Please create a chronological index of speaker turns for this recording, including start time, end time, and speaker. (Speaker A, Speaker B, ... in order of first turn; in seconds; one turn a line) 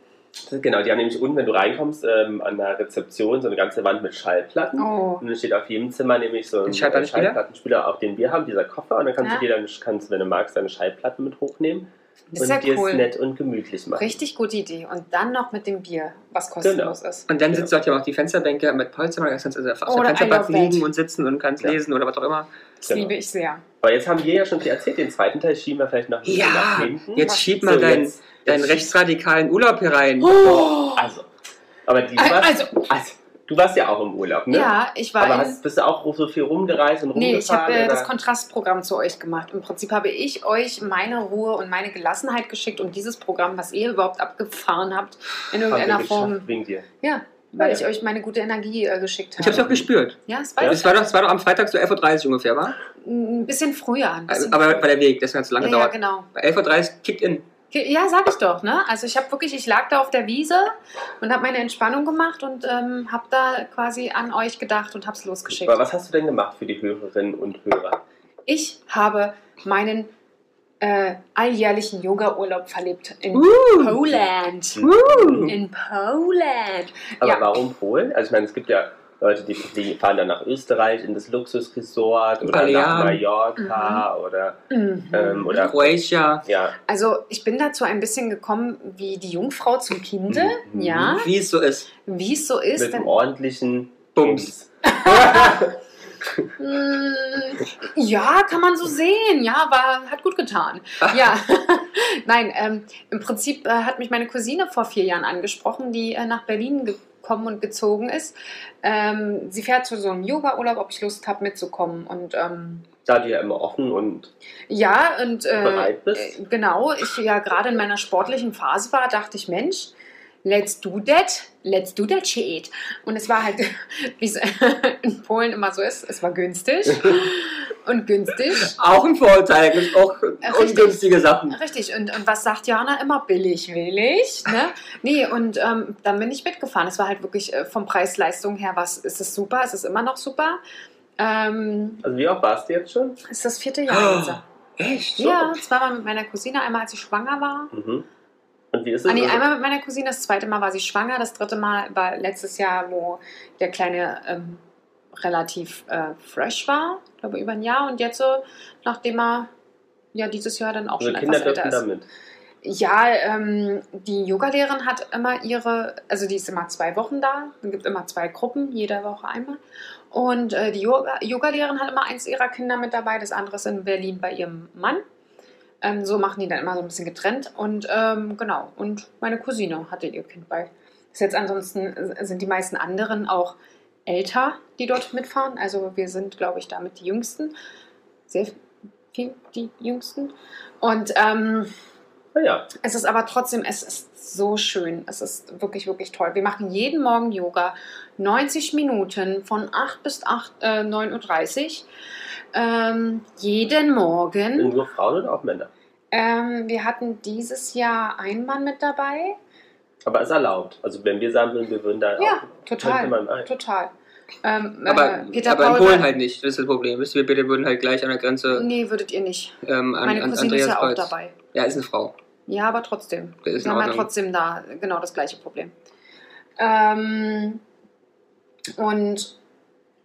Speaker A: 0.5-14.2
Speaker B: 4.8-5.2
Speaker C: 6.7-7.4
Speaker B: 12.3-13.1
Speaker B: 14.0-17.3
Speaker A: 16.6-17.0
Speaker C: 17.3-22.5
Speaker B: 19.9-20.9
Speaker A: 22.8-23.1
Speaker B: 22.9-23.6
Speaker A: 23.8-28.9
Speaker C: 26.2-30.6
Speaker B: 27.2-27.6
Speaker B: 30.2-31.1
Speaker A: 30.4-31.3
Speaker A: 31.9-38.1
Speaker B: 32.2-32.8
Speaker B: 34.5-35.6
Speaker B: 37.1-46.5
Speaker A: 45.7-46.9
Speaker B: 47.0-51.0
Speaker C: 49.4-52.8
Speaker A: 49.6-49.8
Speaker B: 53.0-54.9
Speaker C: 54.3-57.4
Speaker B: 55.6-56.3
Speaker B: 57.7-65.8
Speaker A: 65.5-68.0
Speaker B: 68.5-70.1
Speaker B: 70.8-74.8
Speaker C: 73.3-74.0
Speaker A: 74.8-75.5
Speaker C: 74.8-75.5
Speaker B: 75.5-77.5
Speaker A: 77.2-86.8
Speaker C: 82.4-83.2
Speaker B: 83.6-84.0
Speaker B: 84.7-85.7
Speaker C: 85.5-86.5
Speaker B: 86.9-91.3
Speaker A: 90.3-91.2
Speaker C: 91.2-91.9
Speaker B: 92.0-93.1
Speaker A: 92.8-95.8
Speaker C: 94.2-94.5
Speaker B: 94.8-95.7
Speaker B: 96.6-112.9
Speaker A: 113.1-114.3
Speaker B: 114.7-119.9
Speaker A: 115.6-116.4
Speaker B: 120.4-128.8
Speaker C: 128.6-131.6
Speaker B: 130.4-140.6
Speaker B: 141.2-142.0
Speaker A: 142.0-143.2
Speaker B: 143.2-144.4
Speaker C: 143.9-145.5
Speaker B: 145.2-147.7
Speaker A: 147.7-148.1
Speaker A: 148.7-149.4
Speaker B: 149.1-154.6
Speaker B: 155.2-159.5
Speaker B: 160.1-161.8
Speaker A: 161.0-162.1
Speaker B: 162.6-169.6
Speaker B: 170.1-175.0
Speaker B: 175.8-187.6
Speaker B: 188.3-188.6
Speaker B: 189.1-191.7
Speaker A: 192.3-192.7
Speaker B: 192.8-201.9
Speaker B: 202.5-204.7
Speaker A: 204.6-205.7
Speaker B: 206.1-209.4
Speaker A: 210.1-213.5
Speaker B: 212.2-213.9
Speaker B: 214.4-216.1
Speaker C: 214.9-218.7
Speaker B: 218.5-221.3
Speaker C: 219.6-222.1
Speaker B: 222.5-225.7
Speaker C: 223.4-224.1
Speaker B: 226.6-227.6
Speaker B: 228.8-229.3